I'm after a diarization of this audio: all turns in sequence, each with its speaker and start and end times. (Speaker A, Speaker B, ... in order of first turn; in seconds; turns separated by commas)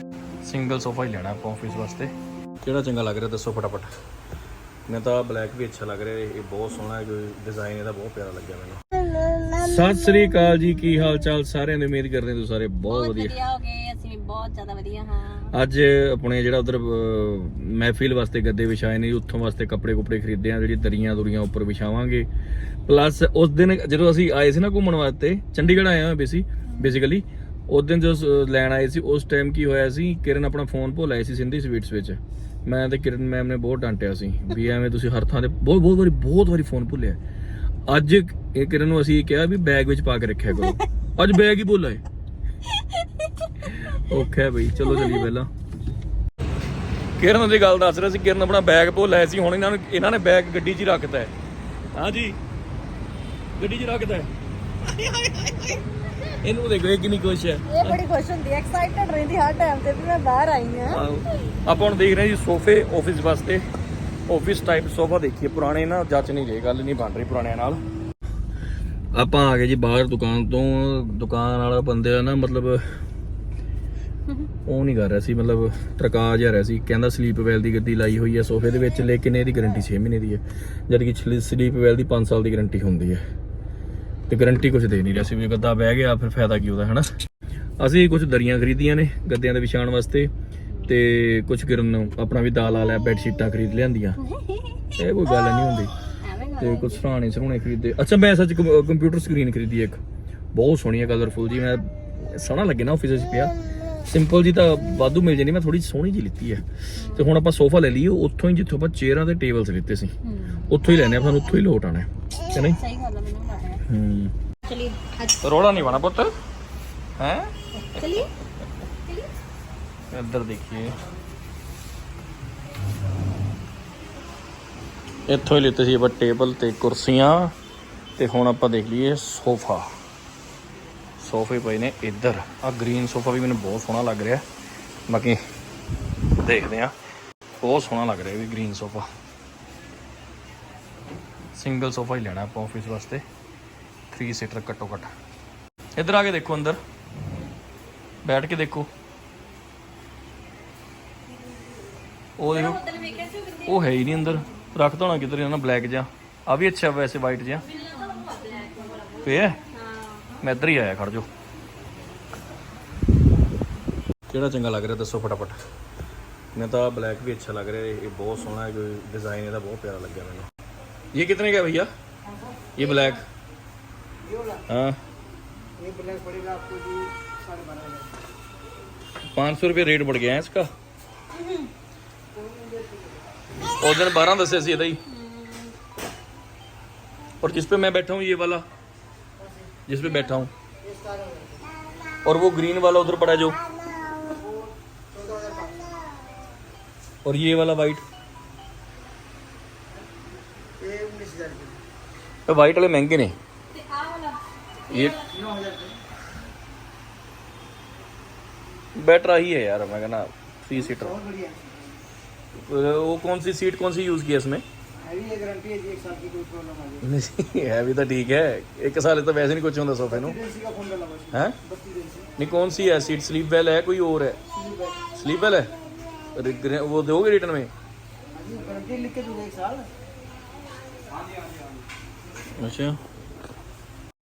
Speaker A: 0.4-3.9, Speaker A: 4.9-8.8, Speaker A: 9.5-13.3, Speaker B: 12.9-15.5, Speaker A: 15.5-22.3, Speaker A: 22.9-37.2, Speaker A: 37.9-42.0, Speaker A: 43.6-45.5, Speaker B: 44.9-45.2, Speaker A: 47.2-51.3, Speaker A: 51.9-52.4, Speaker A: 53.6-54.3, Speaker A: 54.9-58.0, Speaker B: 57.7-61.0, Speaker A: 60.9-63.6, Speaker A: 64.3-67.8, Speaker A: 69.1-72.8, Speaker A: 74.6-83.2, Speaker A: 84.3-87.1, Speaker A: 87.8-90.3, Speaker A: 90.8-94.2, Speaker B: 94.2-95.6, Speaker A: 94.9-95.9, Speaker B: 96.2-97.0, Speaker A: 96.6-100.0, Speaker A: 100.5-112.8, Speaker B: 107.0-107.4, Speaker B: 110.2-110.8, Speaker B: 112.5-113.8, Speaker A: 113.8-114.3, Speaker B: 114.6-115.4, Speaker A: 115.4-116.3, Speaker A: 117.2-117.5, Speaker B: 117.8-118.3, Speaker A: 120.1-121.0, Speaker A: 125.3-127.5, Speaker A: 128.2-129.9, Speaker A: 131.2-134.4, Speaker A: 135.1-135.4, Speaker A: 136.3-136.9, Speaker A: 137.6-139.1, Speaker A: 141.5-143.2, Speaker A: 144.1-145.1, Speaker A: 146.0-146.8, Speaker A: 148.2-148.9, Speaker A: 152.4-152.8, Speaker B: 152.5-154.4, Speaker A: 153.7-157.7, Speaker B: 157.6-160.4, Speaker A: 159.2-159.6, Speaker A: 160.4-161.3, Speaker A: 164.3-165.6, Speaker A: 166.5-170.5, Speaker A: 171.1-171.9, Speaker A: 172.8-173.2, Speaker C: 174.2-174.6, Speaker A: 174.7-175.0, Speaker C: 175.8-178.1, Speaker A: 179.3-180.7, Speaker B: 181.3-181.7, Speaker C: 182.3-183.2, Speaker A: 183.8-185.0, Speaker B: 185.1-185.7, Speaker A: 187.4-188.6, Speaker A: 189.9-190.5, Speaker C: 190.8-191.6, Speaker A: 192.2-193.6, Speaker C: 194.2-196.0, Speaker A: 197.2-198.0, Speaker C: 200.8-201.8, Speaker A: 202.5-203.4, Speaker B: 203.7-205.4, Speaker A: 204.9-205.2, Speaker C: 205.3-206.0, Speaker A: 208.9-211.2, Speaker C: 210.8-211.9, Speaker A: 212.6-214.6, Speaker C: 215.0-217.1, Speaker A: 217.0-220.4, Speaker C: 220.1-222.3, Speaker A: 221.3-221.6, Speaker A: 222.4-224.4, Speaker C: 224.6-225.0, Speaker A: 225.1-225.7, Speaker A: 226.3-227.7, Speaker C: 228.3-229.9, Speaker C: 231.2-231.5, Speaker A: 232.6-233.0